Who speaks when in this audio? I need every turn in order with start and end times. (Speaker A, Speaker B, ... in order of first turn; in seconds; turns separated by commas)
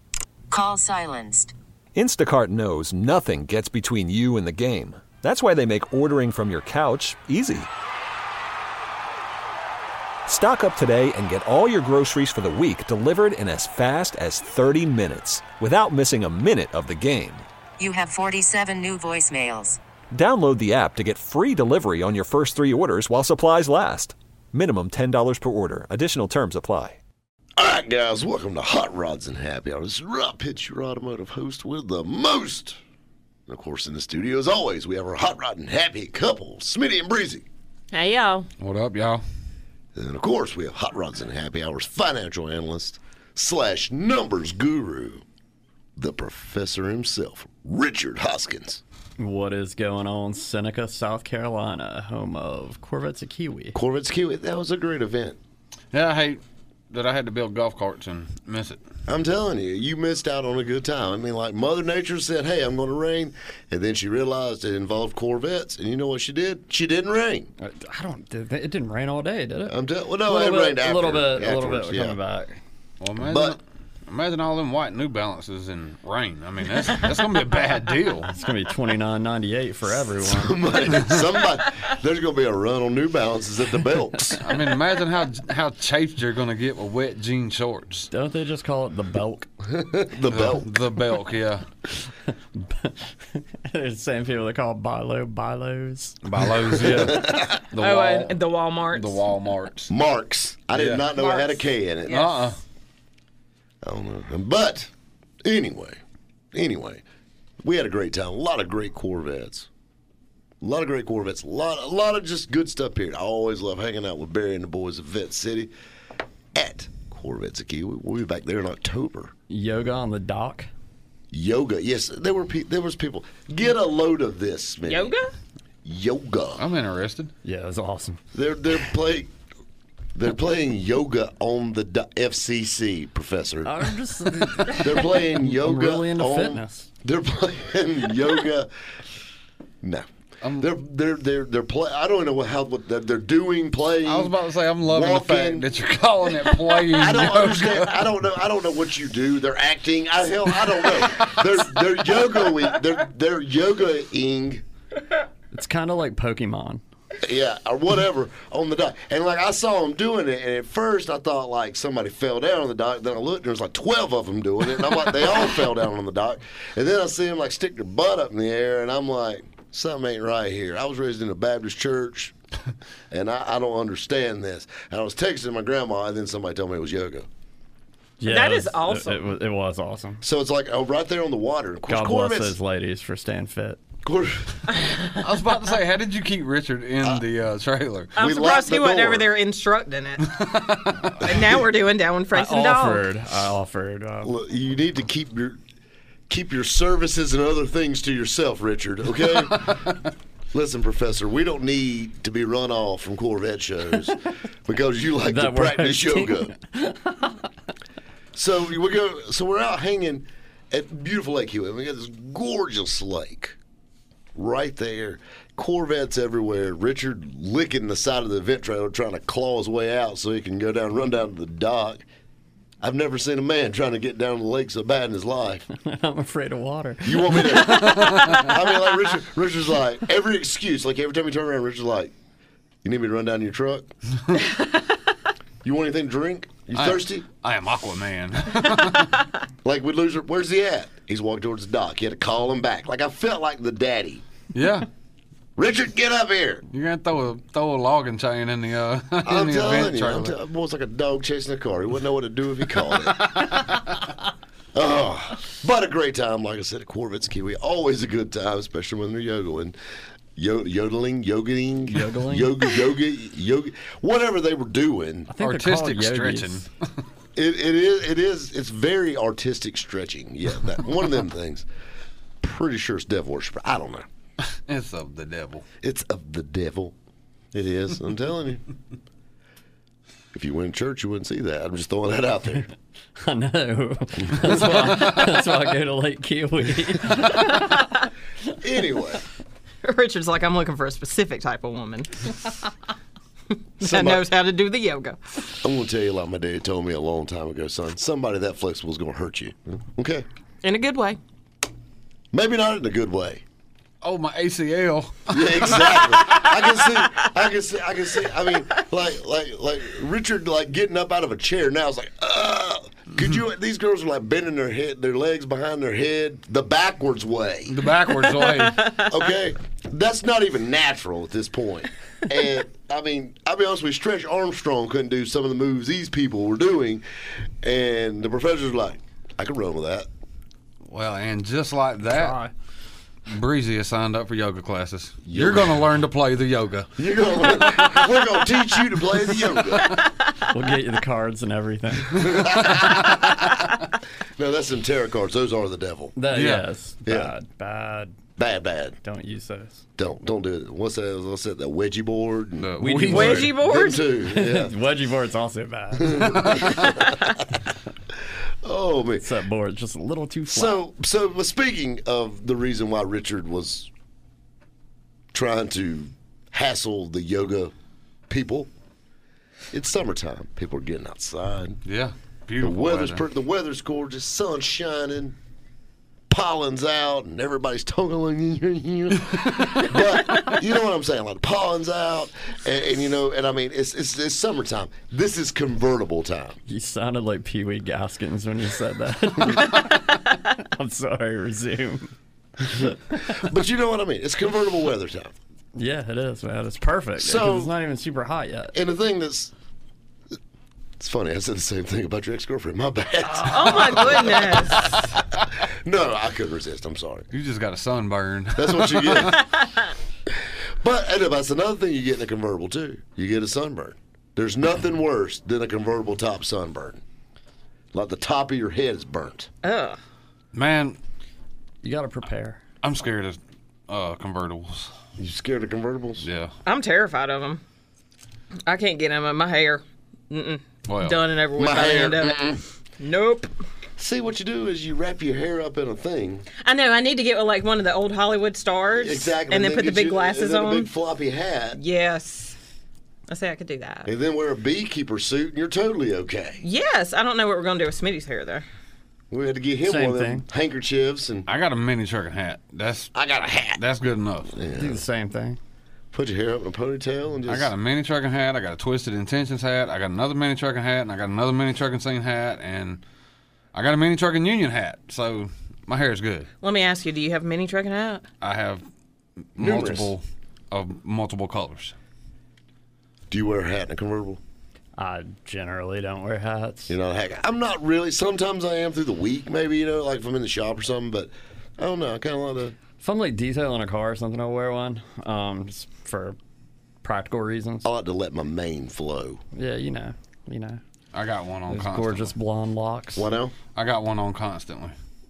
Speaker A: 0.5-1.5, Speaker B: 1.9-7.7, Speaker B: 10.3-17.4, Speaker A: 17.8-19.8, Speaker B: 20.1-27.0, Speaker C: 27.6-32.8, Speaker C: 33.5-37.5, Speaker D: 37.9-38.5, Speaker E: 38.6-39.2, Speaker C: 39.9-45.2, Speaker C: 46.0-48.8, Speaker F: 49.2-53.8, Speaker C: 53.7-55.4, Speaker E: 55.9-58.8, Speaker C: 59.1-67.5, Speaker F: 67.6-72.6, Speaker C: 69.7-72.2, Speaker E: 73.0-78.4, Speaker C: 73.2-73.6, Speaker F: 78.4-80.7, Speaker C: 80.0-84.4, Speaker E: 84.4-88.1, Speaker F: 88.1-89.5, Speaker C: 89.6-90.7, Speaker E: 90.3-91.6, Speaker F: 92.5-96.2, Speaker E: 96.2-98.3, Speaker C: 96.7-97.6, Speaker D: 97.7-99.2, Speaker E: 98.9-99.9, Speaker C: 99.9-102.3, Speaker E: 100.7-101.1, Speaker D: 101.2-102.4, Speaker E: 102.1-102.6, Speaker C: 103.8-104.9, Speaker C: 105.4-106.0, Speaker C: 106.5-107.0, Speaker C: 107.6-109.7, Speaker C: 110.6-115.7, Speaker C: 116.5-119.3, Speaker F: 119.5-120.7, Speaker C: 121.3-125.2, Speaker D: 124.8-125.3, Speaker C: 125.8-126.6, Speaker E: 126.6-127.3, Speaker F: 127.4-128.2, Speaker C: 128.3-129.3, Speaker C: 130.1-138.7, Speaker F: 133.6-136.9, Speaker C: 139.8-145.7, Speaker E: 140.4-140.7, Speaker E: 144.0-148.0, Speaker C: 146.9-154.6, Speaker F: 155.5-156.8, Speaker C: 157.2-172.3, Speaker C: 173.1-177.3, Speaker F: 178.2-180.2, Speaker D: 178.2-179.3, Speaker C: 180.2-182.6, Speaker F: 181.9-183.8, Speaker C: 184.0-184.7, Speaker E: 185.2-188.2, Speaker C: 188.2-189.3, Speaker D: 188.2-190.3, Speaker E: 190.2-191.3, Speaker D: 191.2-193.1, Speaker F: 192.3-194.3, Speaker C: 194.2-195.6, Speaker C: 196.3-199.8, Speaker C: 200.5-206.5, Speaker F: 205.3-207.4, Speaker C: 208.3-213.6, Speaker C: 214.3-222.0, Speaker C: 222.8-225.7, Speaker F: 225.8-228.1, Speaker C: 227.0-232.1, Speaker E: 228.1-228.4, Speaker C: 232.8-233.9, Speaker C: 235.6-237.2, Speaker E: 236.7-239.3, Speaker C: 239.6-244.2, Speaker E: 244.5-244.9, Speaker C: 245.6-246.6, Speaker E: 246.7-250.3, Speaker C: 249.2-253.7, Speaker C: 254.7-259.8, Speaker C: 260.4-265.3, Speaker F: 261.9-262.5, Speaker F: 265.3-266.6, Speaker E: 265.4-266.7, Speaker C: 267.4-271.6, Speaker C: 272.4-274.1, Speaker E: 274.5-275.6, Speaker C: 275.8-276.9, Speaker C: 277.5-278.6, Speaker C: 280.3-282.7, Speaker F: 283.2-287.6, Speaker E: 284.5-285.4, Speaker C: 288.5-289.2, Speaker D: 289.8-292.3, Speaker D: 293.8-295.2, Speaker C: 293.8-294.3, Speaker C: 295.6-300.2, Speaker D: 300.6-301.2, Speaker C: 302.3-303.4, Speaker E: 304.0-305.9, Speaker C: 305.3-317.8, Speaker E: 317.7-319.0, Speaker C: 319.0-327.0, Speaker C: 327.6-330.1, Speaker E: 330.8-332.4, Speaker F: 332.1-332.5, Speaker E: 333.3-336.9, Speaker C: 335.2-335.8, Speaker C: 337.0-340.0, Speaker F: 340.5-342.3, Speaker C: 342.1-343.7, Speaker E: 342.7-343.1, Speaker C: 344.4-346.1, Speaker F: 346.1-348.2, Speaker E: 346.3-346.7, Speaker C: 347.1-347.3, Speaker C: 348.4-349.0, Speaker F: 349.0-349.8, Speaker C: 350.0-354.7, Speaker E: 352.6-353.5, Speaker F: 352.8-353.5, Speaker D: 353.1-354.1, Speaker F: 354.2-356.6, Speaker C: 356.0-357.3, Speaker C: 358.6-359.3, Speaker F: 359.2-360.8, Speaker C: 360.5-363.9, Speaker C: 365.3-367.7, Speaker C: 368.3-368.7, Speaker C: 369.7-371.8, Speaker E: 371.9-373.2, Speaker C: 372.6-375.4, Speaker C: 376.3-386.6, Speaker E: 379.3-379.8, Speaker F: 386.7-392.1, Speaker C: 392.6-395.3, Speaker F: 395.8-398.7, Speaker C: 397.2-397.7, Speaker C: 398.7-399.5, Speaker C: 401.0-407.3, Speaker D: 403.4-405.0, Speaker E: 407.3-409.4, Speaker C: 408.5-409.4, Speaker C: 410.3-417.0, Speaker C: 417.9-419.5, Speaker D: 419.6-420.0, Speaker E: 420.5-421.0, Speaker F: 421.8-422.6, Speaker E: 422.8-424.9, Speaker C: 425.2-426.3, Speaker E: 426.2-426.5, Speaker D: 426.6-427.6, Speaker D: 428.6-432.4, Speaker E: 430.9-431.2, Speaker C: 431.6-432.6, Speaker D: 433.0-433.5, Speaker C: 434.0-436.5, Speaker D: 436.6-440.9, Speaker C: 438.9-441.8, Speaker D: 441.7-442.6, Speaker D: 443.3-444.1, Speaker C: 444.0-446.6, Speaker D: 446.6-448.6, Speaker C: 449.3-451.5, Speaker F: 449.9-450.4, Speaker E: 451.5-453.1, Speaker C: 453.1-453.8, Speaker E: 453.7-454.5, Speaker C: 454.5-455.0, Speaker F: 454.8-455.6, Speaker C: 456.1-457.7, Speaker E: 457.5-463.0, Speaker E: 463.7-466.5, Speaker D: 466.6-468.2, Speaker E: 468.4-468.8, Speaker E: 469.6-471.9, Speaker C: 469.6-470.1, Speaker C: 473.3-474.4, Speaker F: 475.0-476.9, Speaker C: 476.9-482.8, Speaker F: 483.0-486.4, Speaker F: 487.0-487.9, Speaker C: 487.8-489.4, Speaker F: 489.5-490.8, Speaker E: 491.1-492.3, Speaker F: 491.7-493.3, Speaker C: 493.1-493.5, Speaker E: 493.7-494.9